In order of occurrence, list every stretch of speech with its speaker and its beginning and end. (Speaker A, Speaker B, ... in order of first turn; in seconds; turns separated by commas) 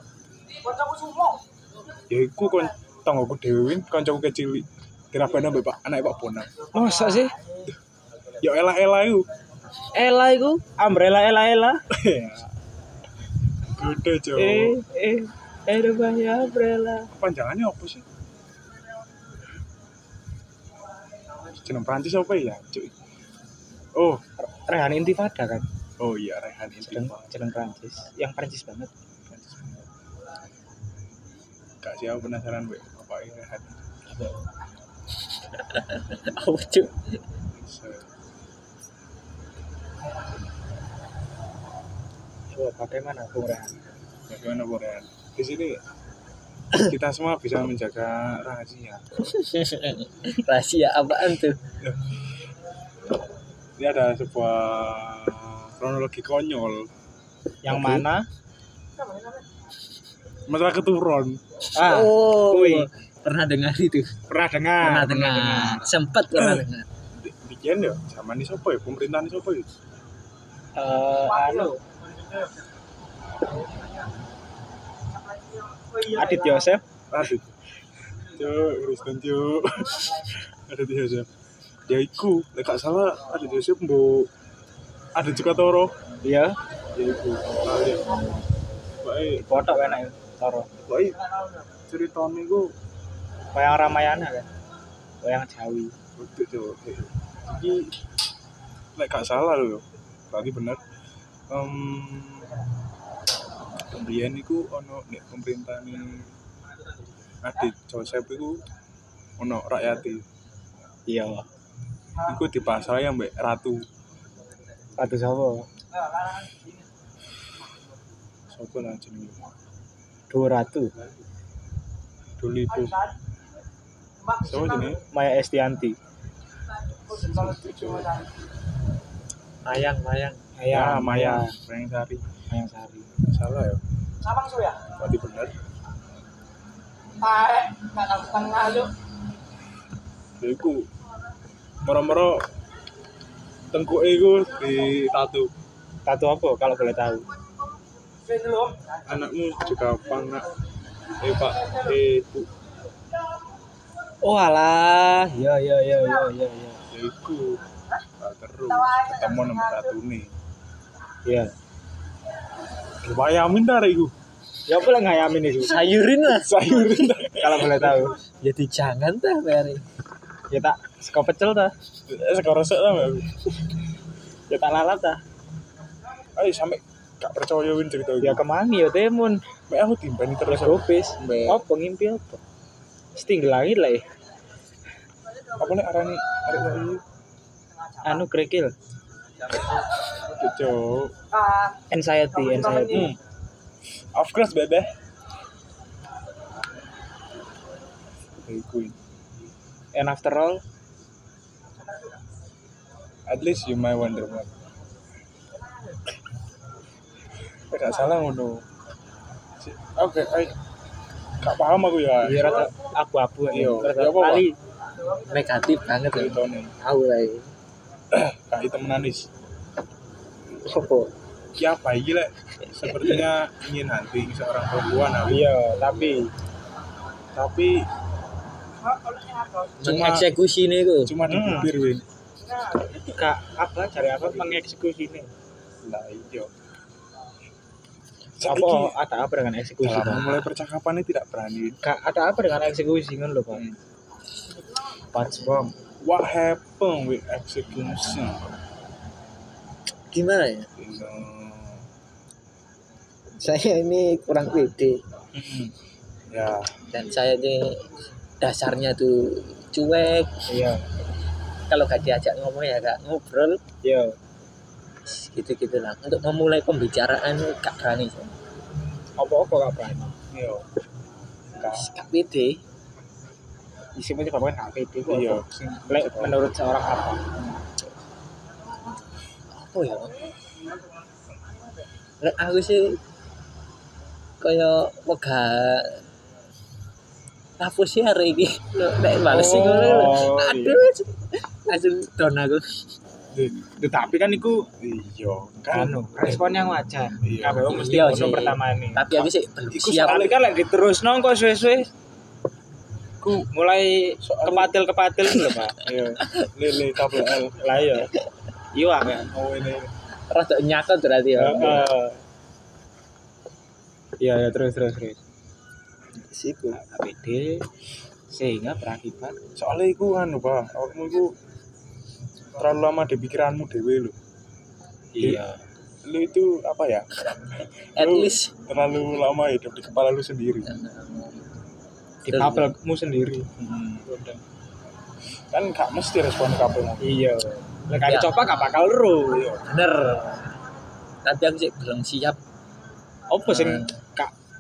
Speaker A: 2.1-6.5, Speaker B: 6.7-7.3, Speaker A: 8.4-9.3, Speaker B: 9.9-11.8, Speaker A: 11.9-12.5, Speaker A: 13.8-14.8, Speaker B: 14.4-17.1, Speaker A: 17.1-18.1, Speaker A: 21.6-22.9, Speaker A: 23.9-24.2, Speaker B: 24.4-25.6, Speaker A: 26.0-27.3, Speaker B: 26.9-28.9, Speaker A: 29.3-29.9, Speaker A: 31.8-33.8, Speaker C: 35.6-37.2, Speaker A: 37.5-38.1, Speaker B: 42.5-43.7, Speaker A: 44.3-45.8, Speaker A: 46.7-49.0, Speaker C: 49.3-51.6, Speaker A: 51.8-52.1, Speaker A: 53.8-56.9, Speaker B: 57.6-58.3, Speaker C: 57.7-58.0, Speaker A: 60.5-61.4, Speaker B: 61.7-62.9, Speaker C: 61.8-64.2, Speaker B: 64.3-65.9, Speaker C: 64.8-66.9, Speaker A: 67.2-69.7, Speaker B: 70.8-71.8, Speaker B: 76.0-76.8, Speaker A: 77.1-77.5, Speaker A: 78.3-81.3, Speaker A: 81.9-84.3, Speaker A: 85.2-86.0, Speaker B: 86.2-86.6, Speaker A: 87.0-88.1, Speaker A: 89.0-90.0, Speaker B: 89.4-90.7, Speaker A: 90.8-91.2, Speaker A: 91.9-92.7, Speaker B: 93.5-94.5, Speaker B: 95.2-95.9, Speaker A: 96.2-97.9, Speaker A: 99.0-100.8, Speaker A: 101.5-102.6, Speaker A: 103.9-106.3, Speaker A: 107.4-108.6, Speaker A: 109.4-110.2, Speaker B: 111.1-111.5, Speaker A: 112.2-113.8, Speaker B: 115.0-115.6, Speaker A: 118.5-119.5, Speaker B: 120.3-120.9, Speaker A: 122.4-123.0, Speaker A: 124.4-125.0, Speaker B: 125.1-126.0, Speaker A: 127.1-128.2, Speaker C: 129.7-130.4, Speaker B: 130.6-131.6, Speaker A: 130.7-132.2, Speaker B: 132.5-133.1, Speaker A: 133.2-133.8, Speaker A: 135.0-135.5, Speaker A: 140.4-140.9, Speaker A: 141.8-142.5, Speaker A: 143.7-145.5, Speaker B: 146.1-147.3, Speaker A: 149.1-150.5, Speaker A: 151.2-152.5, Speaker B: 154.2-156.8, Speaker A: 156.9-157.6, Speaker A: 158.2-160.3, Speaker B: 161.3-161.5, Speaker A: 163.0-164.1, Speaker B: 164.7-165.8, Speaker C: 165.6-166.6, Speaker A: 166.4-168.1, Speaker B: 167.3-168.2, Speaker C: 168.4-169.8, Speaker B: 170.5-171.7, Speaker A: 172.1-173.3, Speaker B: 174.5-175.2, Speaker A: 176.4-178.4, Speaker B: 178.2-179.4, Speaker A: 179.7-181.6, Speaker B: 180.5-182.4, Speaker B: 183.2-184.0, Speaker A: 185.6-187.0, Speaker B: 188.0-188.7, Speaker A: 190.4-191.1, Speaker B: 191.9-193.1, Speaker A: 192.9-193.2, Speaker A: 194.1-194.9, Speaker A: 198.4-199.0, Speaker B: 199.9-200.6, Speaker A: 203.3-204.5, Speaker A: 207.7-208.7, Speaker A: 209.6-210.6, Speaker A: 211.4-212.7, Speaker B: 212.2-214.6, Speaker A: 213.5-214.5, Speaker C: 215.3-217.5, Speaker A: 216.1-216.7, Speaker A: 218.1-219.3, Speaker A: 221.6-225.5, Speaker B: 225.3-226.3, Speaker A: 227.3-227.9, Speaker A: 229.8-230.3, Speaker C: 229.8-231.2, Speaker A: 231.1-232.1, Speaker B: 231.3-231.7, Speaker B: 232.9-235.3, Speaker A: 235.8-236.5, Speaker A: 238.4-239.0, Speaker B: 238.4-240.5, Speaker A: 239.8-241.8, Speaker B: 241.8-243.7, Speaker B: 245.1-245.8, Speaker A: 246.0-248.5, Speaker C: 250.1-250.7, Speaker A: 250.8-251.8, Speaker C: 253.4-255.0, Speaker A: 255.4-255.7, Speaker A: 256.3-256.7, Speaker C: 256.9-260.4, Speaker B: 260.5-260.8, Speaker C: 261.7-263.6, Speaker B: 263.8-264.2, Speaker C: 265.1-268.3, Speaker B: 269.2-270.1, Speaker A: 270.3-270.6, Speaker A: 271.6-271.8, Speaker C: 271.6-272.6, Speaker B: 274.0-277.2, Speaker A: 275.1-276.4, Speaker C: 279.5-280.3, Speaker C: 282.2-283.0, Speaker C: 284.4-286.0, Speaker C: 287.6-292.9, Speaker A: 289.2-290.9, Speaker A: 293.3-293.6, Speaker B: 293.8-294.7, Speaker A: 294.8-296.4, Speaker B: 295.7-299.2, Speaker A: 297.2-297.9, Speaker C: 297.7-300.2, Speaker A: 299.7-300.4, Speaker B: 300.0-301.9, Speaker A: 303.2-303.5, Speaker B: 303.5-305.8, Speaker A: 304.2-304.7, Speaker A: 305.8-307.8, Speaker B: 307.6-308.1, Speaker B: 308.7-309.3, Speaker A: 309.3-309.9, Speaker C: 310.3-311.9, Speaker B: 311.4-312.2, Speaker B: 314.2-315.2, Speaker C: 316.3-316.8, Speaker B: 316.7-317.6, Speaker B: 318.3-319.4, Speaker A: 319.6-321.4, Speaker A: 322.6-324.1, Speaker B: 325.1-325.6, Speaker A: 325.2-325.4, Speaker A: 326.1-327.4, Speaker A: 327.9-330.8, Speaker C: 328.0-328.5, Speaker C: 330.7-331.2, Speaker B: 332.2-333.5, Speaker C: 332.3-332.7, Speaker A: 333.6-334.1, Speaker B: 334.1-334.4, Speaker A: 335.5-337.2, Speaker B: 337.0-339.5, Speaker C: 338.1-338.9, Speaker A: 339.3-339.6, Speaker C: 339.6-340.5, Speaker C: 341.2-342.4, Speaker B: 343.3-344.3, Speaker C: 343.5-343.9